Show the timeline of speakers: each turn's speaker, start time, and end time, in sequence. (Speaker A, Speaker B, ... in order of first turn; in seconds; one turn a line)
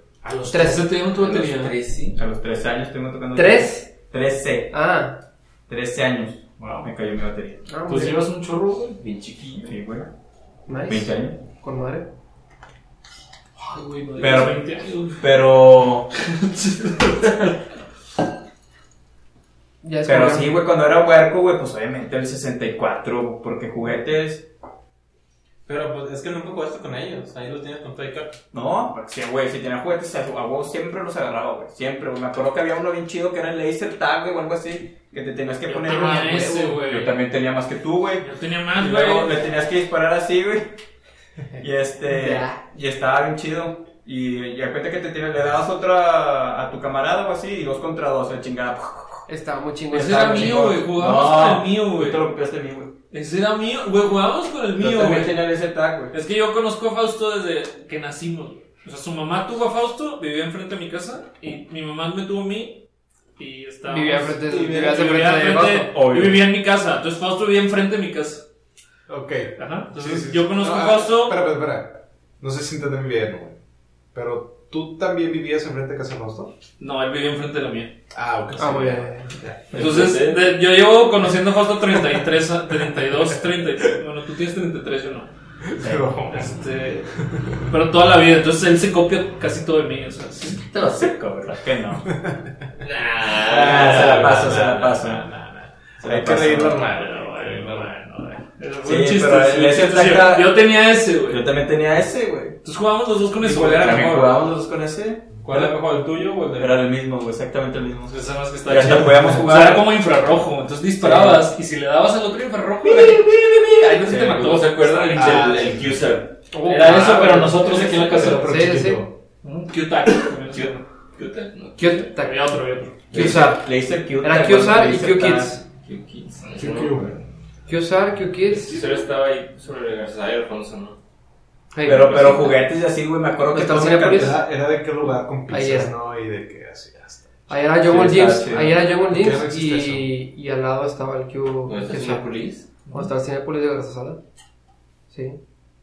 Speaker A: 0.2-1.8
Speaker B: 0.5-0.9
Speaker C: 1.2-2.2
Speaker D: 2.1-4.7
Speaker B: 3.3-3.9
Speaker B: 4.7-5.2
Speaker D: 5.7-7.6
Speaker A: 6.6-6.9
Speaker B: 7.7-8.2
Speaker A: 7.9-9.0
Speaker C: 9.0-9.7
Speaker D: 9.6-10.1
Speaker B: 10.7-12.1
Speaker D: 10.9-11.4
Speaker A: 13.6-15.3
Speaker D: 14.2-14.7
Speaker D: 15.2-16.1
Speaker A: 16.2-17.5
Speaker B: 19.8-20.6
Speaker D: 20.1-24.5
Speaker E: 25.7-28.4
Speaker D: 28.5-40.7
Speaker A: 35.7-37.2
Speaker A: 38.2-39.4
Speaker D: 41.6-49.3
Speaker B: 42.2-42.5
Speaker B: 49.3-50.6
Speaker A: 49.9-52.2
Speaker D: 49.9-52.9
Speaker A: 53.1-55.4
Speaker D: 54.8-56.1
Speaker A: 56.1-62.8
Speaker A: 63.4-68.5
Speaker B: 63.9-65.9
Speaker D: 65.9-66.4
Speaker F: 69.1-73.6
Speaker A: 69.6-71.4
Speaker F: 74.1-76.5
Speaker A: 76.8-77.9
Speaker F: 78.1-79.7
Speaker B: 78.6-79.3
Speaker D: 79.7-80.2
Speaker A: 79.7-85.3
Speaker C: 79.7-80.4
Speaker F: 85.7-86.6
Speaker A: 86.3-90.6
Speaker D: 90.7-92.1
Speaker C: 90.7-91.0
Speaker C: 92.8-94.9
Speaker D: 93.4-95.3
Speaker F: 93.7-98.0
Speaker D: 96.0-96.9
Speaker A: 96.7-101.4
Speaker D: 98.8-100.6
Speaker D: 101.3-102.6
Speaker A: 102.6-104.2
Speaker D: 103.4-105.7
Speaker E: 103.5-104.4
Speaker E: 105.4-106.8
Speaker D: 106.6-109.9
Speaker A: 108.1-115.5
Speaker D: 111.0-111.4
Speaker C: 112.8-116.3
Speaker F: 115.1-115.9
Speaker B: 116.5-119.0
Speaker A: 116.7-118.5
Speaker F: 117.2-119.1
Speaker A: 119.4-120.8
Speaker C: 120.5-121.9
Speaker B: 121.8-122.5
Speaker A: 122.2-123.1
Speaker B: 123.1-125.6
Speaker D: 123.1-125.6
Speaker C: 125.8-127.1
Speaker F: 126.5-127.2
Speaker B: 127.7-128.8
Speaker C: 128.7-131.0
Speaker B: 131.7-132.6
Speaker D: 131.8-134.3
Speaker B: 133.5-134.4
Speaker F: 134.1-137.5
Speaker B: 135.5-135.9
Speaker B: 137.5-142.3
Speaker D: 137.8-138.8
Speaker F: 139.1-140.1
Speaker C: 141.7-142.7
Speaker B: 142.9-144.2
Speaker B: 145.1-145.4